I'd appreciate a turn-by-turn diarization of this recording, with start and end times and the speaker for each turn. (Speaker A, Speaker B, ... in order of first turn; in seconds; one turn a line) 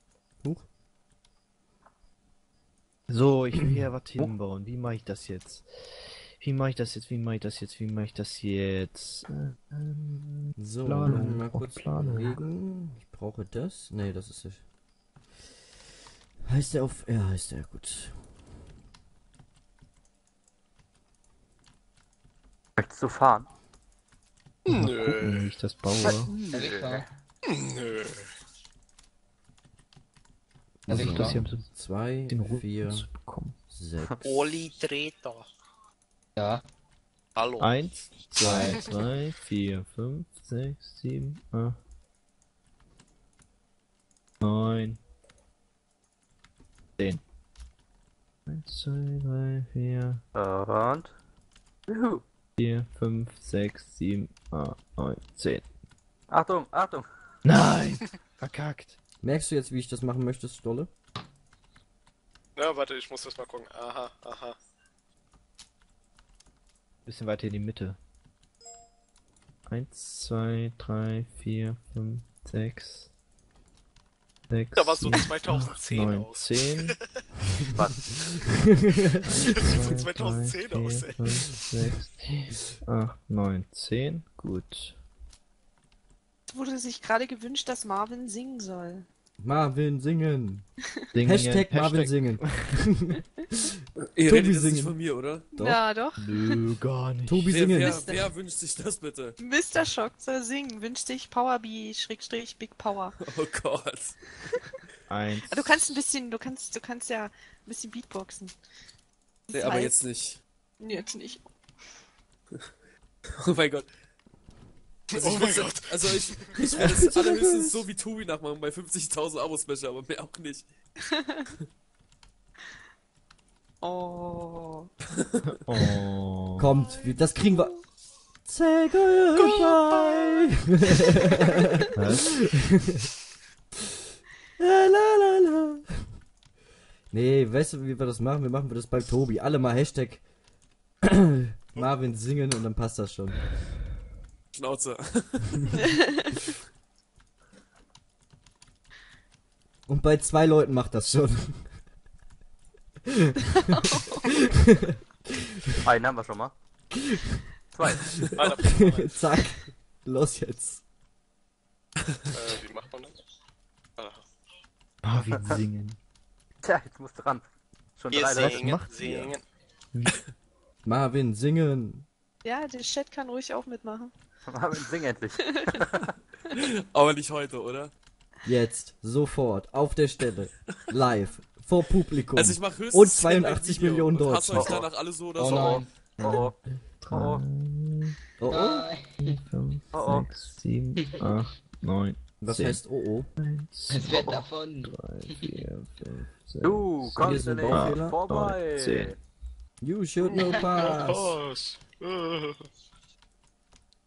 Speaker A: 3.1-12.4
Speaker B: 10.6-14.6
Speaker B: 16.4-18.3
Speaker C: 22.8-23.5
Speaker D: 24.7-25.5
Speaker A: 24.7-26.3
Speaker C: 26.0-27.1
Speaker E: 26.5-27.1
Speaker D: 27.4-28.3
Speaker B: 30.9-33.1
Speaker E: 30.9-31.5
Speaker A: 30.9-31.7
Speaker A: 32.3-33.6
Speaker B: 33.7-34.5
Speaker D: 34.2-35.5
Speaker E: 36.4-36.6
Speaker D: 37.4-37.8
Speaker A: 37.6-41.8
Speaker E: 38.4-38.9
Speaker A: 44.4-45.0
Speaker A: 48.5-50.2
Speaker C: 50.4-51.1
Speaker C: 51.9-52.2
Speaker A: 52.6-55.6
Speaker C: 56.3-57.1
Speaker A: 57.5-59.0
Speaker B: 59.2-60.9
Speaker D: 62.6-64.6
Speaker A: 67.1-68.0
Speaker A: 69.7-73.1
Speaker A: 74.5-76.9
Speaker D: 74.8-77.0
Speaker C: 77.7-78.0
Speaker B: 78.9-79.2
Speaker A: 79.2-85.0
Speaker D: 79.5-81.6
Speaker F: 86.5-89.1
Speaker B: 89.4-90.7
Speaker A: 91.1-92.7
Speaker B: 91.2-95.0
Speaker G: 94.2-95.5
Speaker F: 95.5-96.6
Speaker B: 95.5-95.8
Speaker A: 96.2-97.5
Speaker B: 97.3-98.1
Speaker G: 97.5-99.4
Speaker F: 97.7-98.3
Speaker F: 99.4-103.2
Speaker G: 103.2-104.2
Speaker A: 105.1-106.0
Speaker F: 105.5-108.5
Speaker F: 109.5-110.0
Speaker G: 109.5-110.4
Speaker F: 110.8-111.5
Speaker G: 113.4-113.9
Speaker D: 115.1-116.5
Speaker G: 115.1-120.7
Speaker B: 116.6-117.8
Speaker F: 123.8-124.9
Speaker A: 125.7-126.7
Speaker B: 126.6-127.7
Speaker F: 126.8-127.8
Speaker B: 128.5-131.7
Speaker D: 129.4-129.8
Speaker A: 132.0-132.3
Speaker B: 132.4-133.1
Speaker B: 134.6-136.1
Speaker B: 137.1-140.2
Speaker B: 141.0-143.6
Speaker G: 144.5-145.8
Speaker F: 145.7-146.5
Speaker B: 149.9-151.8
Speaker B: 153.1-155.0
Speaker F: 153.8-154.2
Speaker C: 155.8-156.5
Speaker B: 156.9-157.4
Speaker C: 157.7-158.3
Speaker B: 158.0-160.8
Speaker D: 158.4-159.1
Speaker D: 162.3-163.2
Speaker D: 164.0-164.2
Speaker A: 165.0-166.0
Speaker C: 166.6-167.4
Speaker C: 168.0-168.7
Speaker D: 168.1-169.4
Speaker A: 168.3-169.3
Speaker A: 169.9-170.2
Speaker B: 170.8-172.1
Speaker F: 172.4-174.1
Speaker C: 174.5-176.1
Speaker G: 176.5-177.9
Speaker B: 178.4-184.8
Speaker G: 182.4-185.8
Speaker E: 185.4-186.4
Speaker C: 185.4-186.6
Speaker A: 186.2-188.2
Speaker C: 187.1-187.4
Speaker B: 188.4-188.9
Speaker E: 188.5-189.4
Speaker A: 189.2-192.8
Speaker C: 189.9-190.3
Speaker E: 191.0-191.3
Speaker B: 192.4-193.3
Speaker A: 193.4-199.2
Speaker E: 193.9-195.6
Speaker C: 196.6-199.2
Speaker B: 197.2-198.2
Speaker B: 199.8-201.4
Speaker D: 200.3-202.7
Speaker E: 200.3-200.9